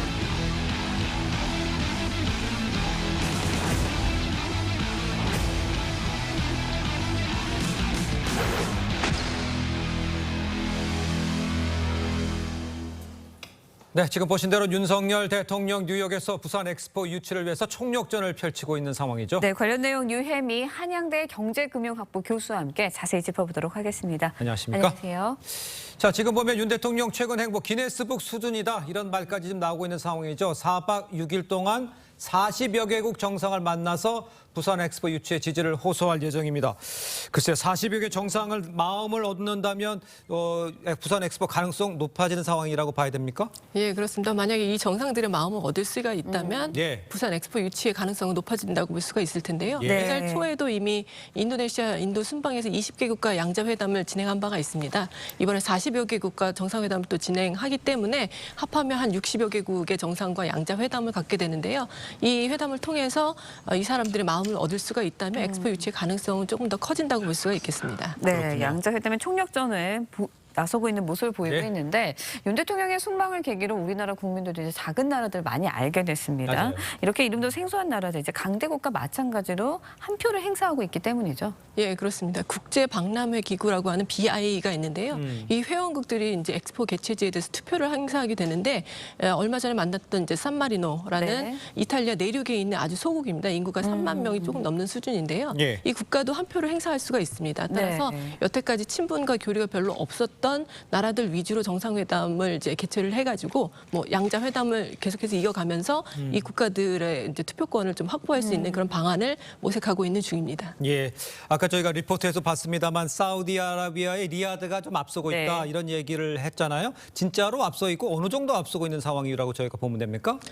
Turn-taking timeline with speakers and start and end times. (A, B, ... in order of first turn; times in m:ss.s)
0:13.9-0:19.4 A
0:19.4-0:25.4 B
0:24.4-0:25.0 A
0:26.0-0:43.5 A
0:43.7-1:08.2 C
0:46.2-0:46.8 B
0:46.7-0:47.1 A
0:49.8-0:50.1 A
0:49.8-0:50.5 B
1:05.3-1:05.8 B
1:08.2-1:21.6 B
1:08.3-1:08.8 A
1:16.4-1:16.8 A
1:21.8-1:50.8 C
1:25.1-1:25.5 A
1:31.2-1:31.6 B
1:33.8-1:34.7 B
1:35.5-1:35.8 A
1:37.7-1:38.4 B
1:46.2-1:46.4 A
1:48.4-1:49.0 B
1:50.8-2:00.4 A
1:55.3-1:55.7 B